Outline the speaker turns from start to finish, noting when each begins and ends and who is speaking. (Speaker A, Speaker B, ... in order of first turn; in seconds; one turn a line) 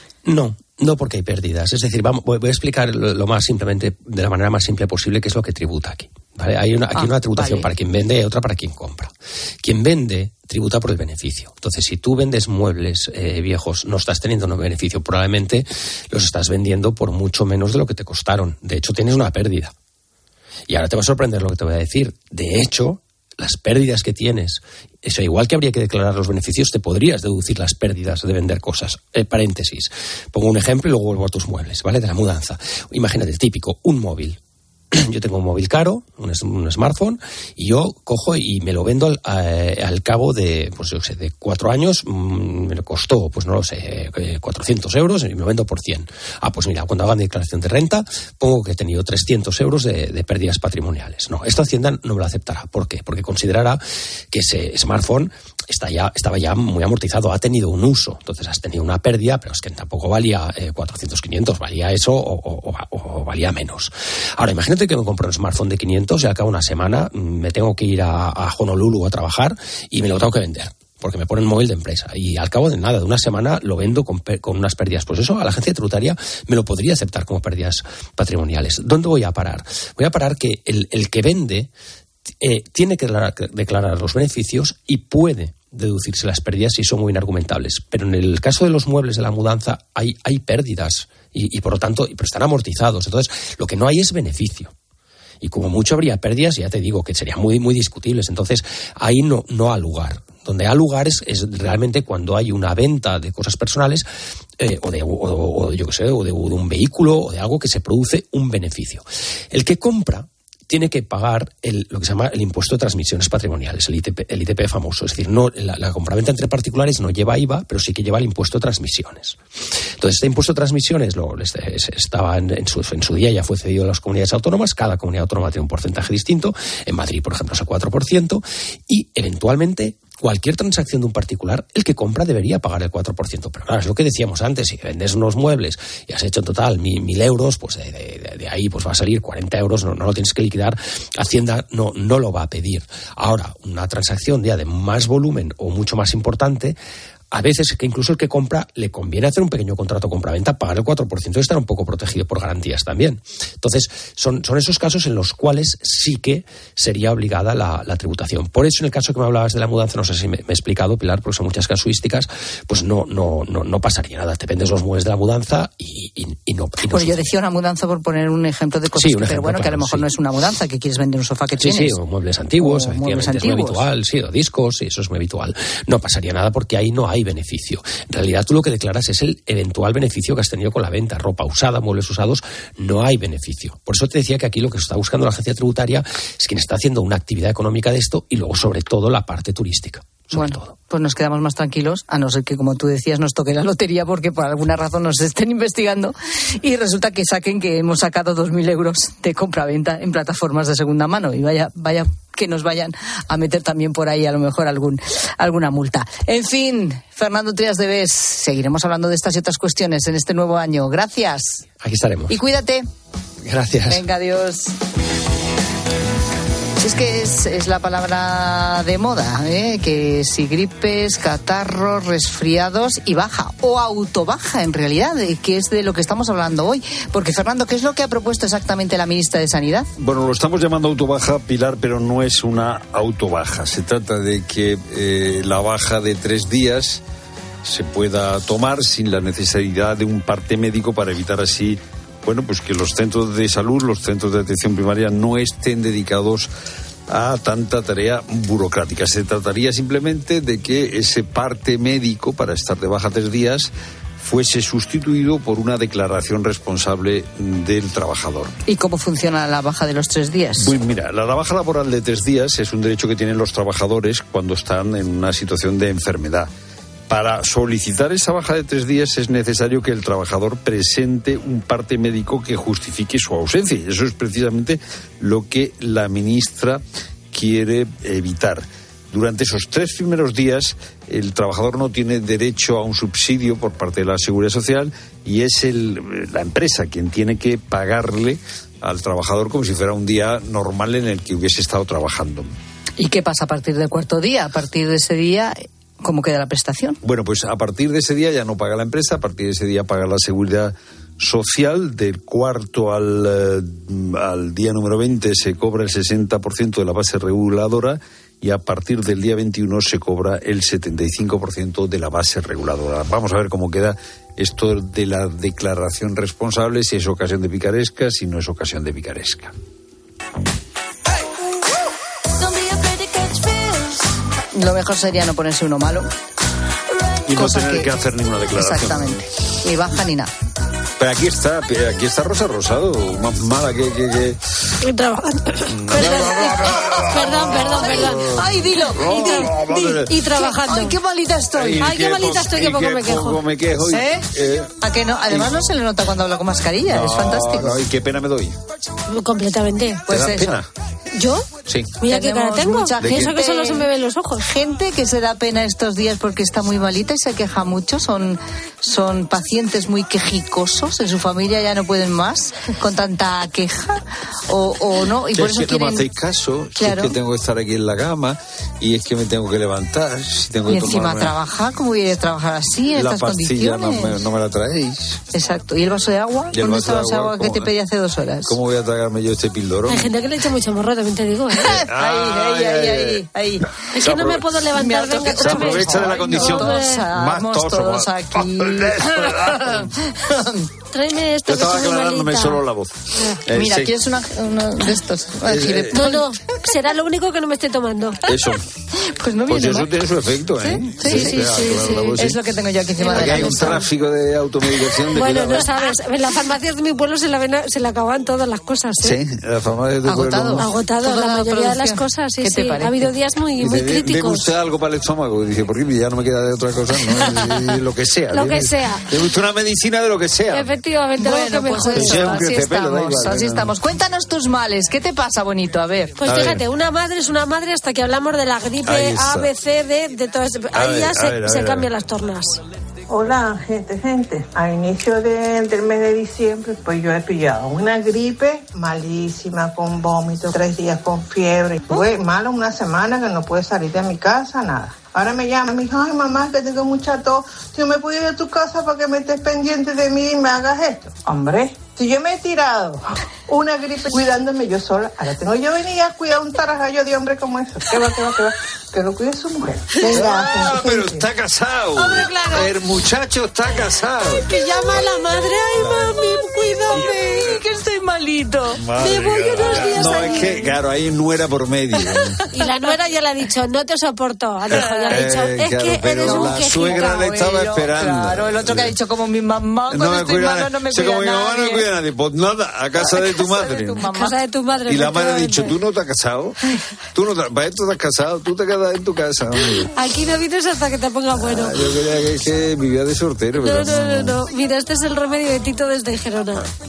Speaker A: 0.3-19.7
Speaker B: 6.9-7.7
Speaker A: 20.7-34.4
Speaker A: 34.9-53.8
Speaker A: 54.3-81.7
Speaker A: 82.4-94.7
Speaker A: 95.4-104.1
Speaker A: 104.6-119.4
Speaker A: 120.0-146.8
Speaker A: 147.3-167.2
Speaker B: 166.9-172.0
Speaker A: 168.9-170.1
Speaker A: 171.6-190.8
Speaker B: 172.6-173.8
Speaker B: 190.3-211.7
Speaker A: 211.8-212.3
Speaker B: 212.3-212.9
Speaker A: 213.5-214.0
Speaker B: 213.9-214.7
Speaker B: 216.8-229.9
Speaker C: 230.0-237.0
Speaker C: 237.7-246.5
Speaker C: 247.1-258.5
Speaker B: 258.7-260.8
Speaker C: 260.6-266.5
Speaker C: 267.1-292.5
Speaker B: 293.0-297.0
Speaker C: 297.0-319.5
Speaker B: 324.5-326.1
Speaker C: 327.3-329.1
Speaker B: 327.3-327.9
Speaker B: 328.5-330.3
Speaker C: 331.0-334.4
Speaker D: 334.8-341.0
Speaker C: 335.7-340.2
Speaker B: 337.2-339.6
Speaker B: 340.3-341.9
Speaker C: 341.6-344.7
Speaker D: 341.8-343.4
Speaker B: 343.9-344.2
Speaker B: 344.8-347.8
Speaker C: 346.9-348.6
Speaker D: 349.1-350.0
Speaker B: 350.1-350.6
Speaker C: 350.1-350.7
Speaker D: 351.2-351.5
Speaker C: 351.7-352.0
Speaker D: 352.0-354.5
Speaker B: 352.1-353.9
Speaker C: 353.0-353.3
Speaker B: 354.4-366.1
Speaker C: 365.4-371.4
Speaker B: 366.8-367.2
Speaker B: 370.7-374.2
Speaker C: 372.9-375.2
Speaker B: 375.3-378.6
Speaker C: 376.5-377.7
Speaker C: 378.5-380.1
Speaker D: 379.9-381.8
Speaker B: 381.5-383.7
Speaker C: 381.7-383.2
Speaker C: 383.9-384.5
Speaker D: 383.9-387.1
Speaker B: 384.7-390.7
Speaker C: 385.2-389.9
Speaker D: 390.9-393.4
Speaker C: 391.4-393.9
Speaker B: 393.5-396.7
Speaker C: 395.5-396.0
Speaker D: 395.9-398.2
Speaker C: 398.3-398.6
Speaker B: 399.0-399.9
Speaker C: 399.5-402.4
Speaker B: 400.6-403.9
Speaker D: 401.0-402.1
Speaker D: 403.0-403.8
Speaker C: 403.1-405.7
Speaker D: 405.0-409.2
Speaker C: 409.0-410.7
Speaker B: 410.1-413.1
Speaker D: 410.6-414.5
Speaker C: 413.6-420.7
Speaker D: 418.3-419.1
Speaker D: 420.5-422.4
Speaker B: 421.2-426.2
Speaker C: 421.9-423.7
Speaker D: 426.2-432.6
Speaker C: 426.2-426.6
Speaker C: 428.9-429.5
Speaker C: 430.7-431.9
Speaker E: 433.1-461.2
Speaker C: 460.1-465.1
Speaker D: 462.0-462.7
Speaker D: 464.4-467.1
Speaker C: 465.8-466.2
Speaker C: 466.9-467.6
Speaker B: 466.9-468.8
Speaker C: 468.8-472.4
Speaker D: 468.9-470.8
Speaker D: 472.5-477.4
Speaker C: 474.7-478.9
Speaker B: 474.7-475.3
Speaker B: 476.2-481.9
Speaker C: 479.9-484.0
Speaker B: 483.0-484.4
Speaker D: 484.0-485.7
Speaker C: 484.9-486.6
Speaker C: 487.1-489.9
Speaker D: 489.9-491.8
Speaker C: 491.3-494.4
Speaker D: 493.5-496.7